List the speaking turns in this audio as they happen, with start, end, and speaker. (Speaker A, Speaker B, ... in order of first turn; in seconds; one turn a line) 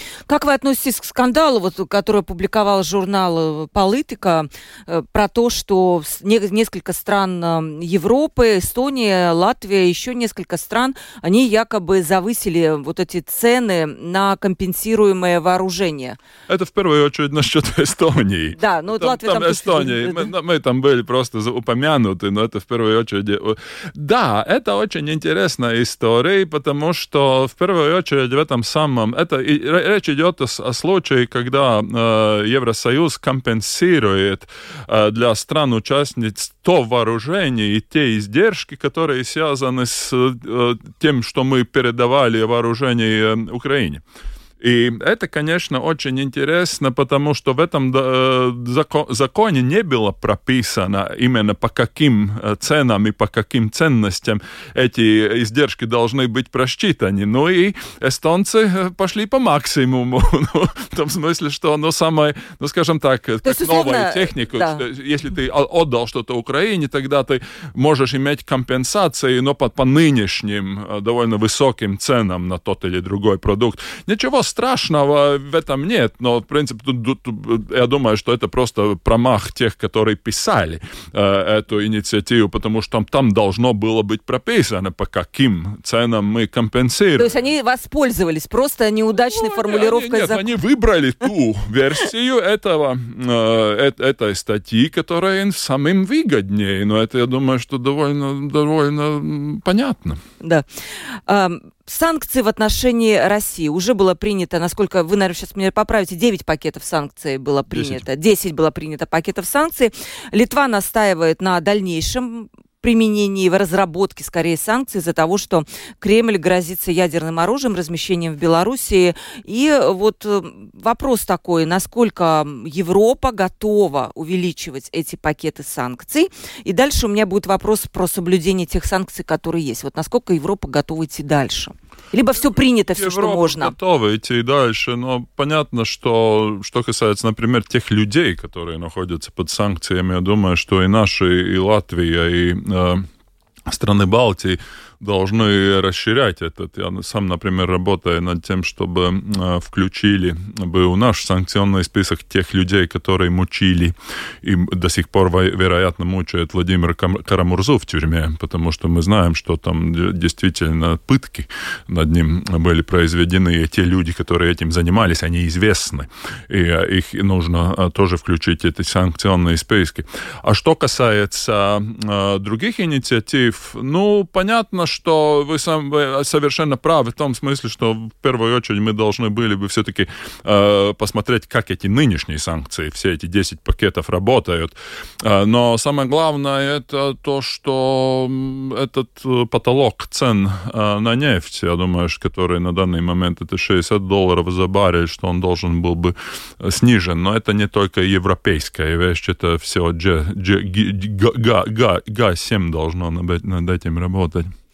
Speaker A: 0.3-16.2
Speaker B: 16.5-44.0
Speaker A: 18.6-20.3
Speaker B: 44.6-87.3
Speaker A: 63.4-64.8
Speaker A: 87.2-90.4
Speaker B: 89.1-100.2
Speaker A: 100.4-133.7
Speaker B: 107.7-108.0
Speaker B: 132.4-143.1
Speaker B: 143.7-204.5